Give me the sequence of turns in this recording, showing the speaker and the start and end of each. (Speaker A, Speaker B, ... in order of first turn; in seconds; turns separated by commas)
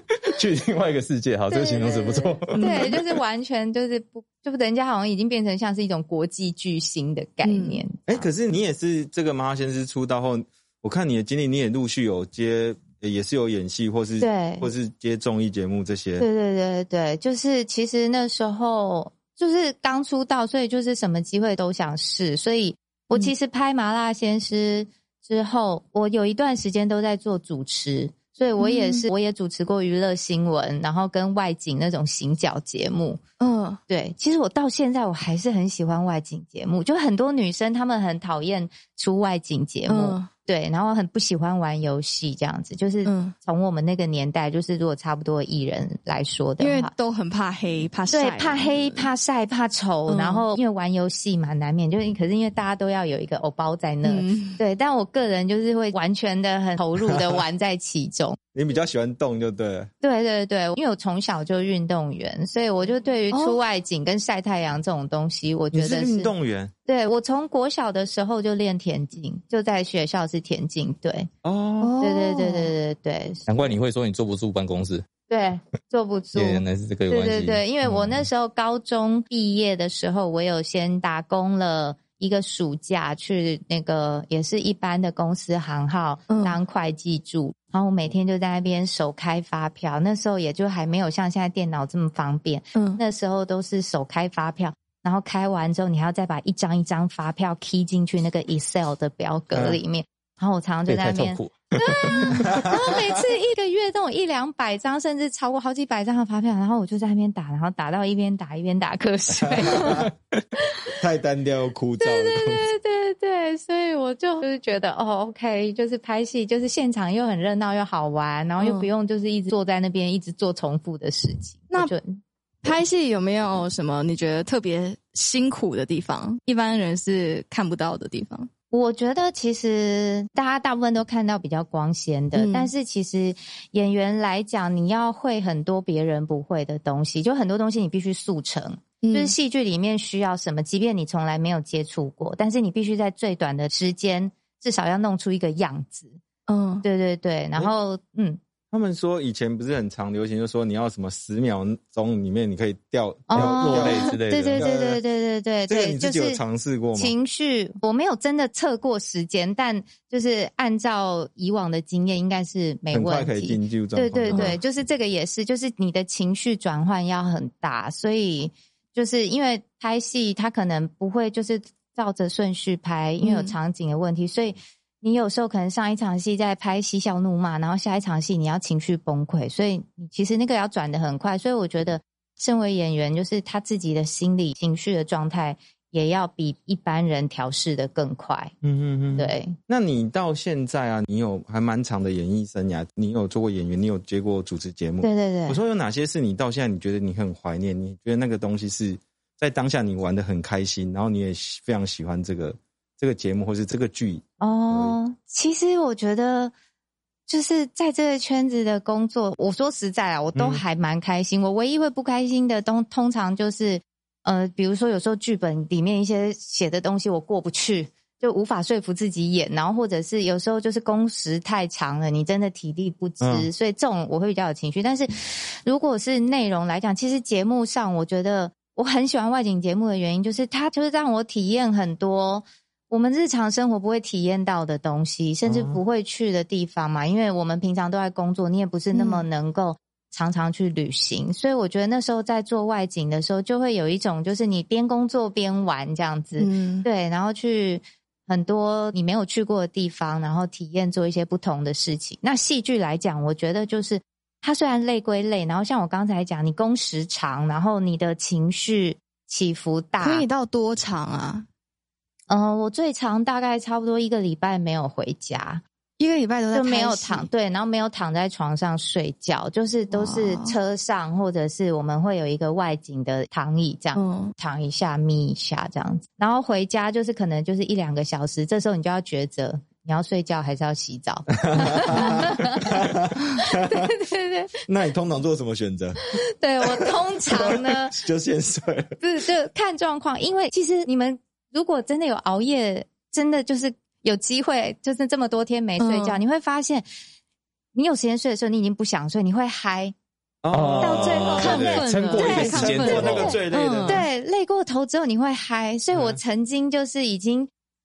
Speaker A: 0.2-2.9, Speaker B: 1.5-8.3, Speaker C: 2.5-3.0, Speaker C: 7.4-7.8, Speaker D: 8.1-16.3, Speaker B: 14.2-14.7, Speaker B: 16.2-33.2, Speaker C: 28.6-29.1, Speaker C: 33.4-33.8, Speaker B: 33.9-46.9, Speaker C: 39.9-40.3, Speaker C: 43.0-43.3, Speaker C: 46.6-49.1, Speaker B: 48.1-58.4, Speaker C: 50.1-50.4, Speaker C: 54.0-54.6, Speaker D: 57.0-57.3, Speaker D: 58.5-59.9, Speaker B: 60.0-66.3, Speaker C: 63.3-63.6, Speaker D: 65.7-66.7, Speaker B: 66.9-71.3, Speaker D: 71.4-71.9, Speaker C: 71.8-72.7, Speaker B: 72.0-73.8, Speaker A: 73.5-75.0, Speaker B: 75.3-110.1, Speaker A: 76.3-77.6, Speaker D: 77.9-78.2, Speaker C: 86.3-86.6, Speaker C: 92.8-93.0, Speaker A: 100.9-102.4, Speaker D: 109.4-110.1, Speaker D: 111.0-112.7, Speaker B: 112.0-122.2, Speaker C: 118.6-118.9, Speaker C: 122.6-128.5, Speaker B: 128.7-146.2, Speaker C: 132.3-132.7, Speaker C: 139.0-139.3, Speaker C: 146.5-146.8, Speaker B: 146.8-148.4, Speaker D: 148.7-155.0, Speaker B: 153.3-156.4, Speaker A: 153.3-154.7, Speaker D: 155.7-157.1, Speaker B: 157.0-188.5, Speaker D: 162.9-164.6, Speaker C: 164.3-164.6, Speaker C: 173.2-173.5, Speaker D: 188.6-205.0, Speaker B: 189.1-189.6, Speaker B: 195.0-195.6, Speaker B: 204.4-206.5, Speaker B: 207.3-260.2, Speaker D: 210.3-210.6, Speaker D: 223.2-223.5, Speaker D: 235.4-235.8, Speaker C: 238.9-239.2, Speaker C: 246.4-246.9, Speaker C: 260.0-261.5, Speaker B: 262.3-265.6, Speaker C: 266.0-267.3, Speaker B: 266.5-282.7, Speaker C: 269.9-270.6, Speaker C: 273.9-274.3, Speaker D: 281.4-283.2, Speaker B: 283.4-284.6, Speaker D: 284.7-286.0, Speaker B: 286.1-288.0, Speaker D: 286.6-289.0, Speaker B: 289.0-296.9, Speaker C: 295.8-296.2, Speaker B: 297.8-299.9, Speaker D: 300.4-301.6, Speaker A: 300.5-303.4, Speaker B: 300.8-307.5, Speaker C: 301.2-304.0, Speaker D: 302.1-304.1, Speaker D: 305.9-306.2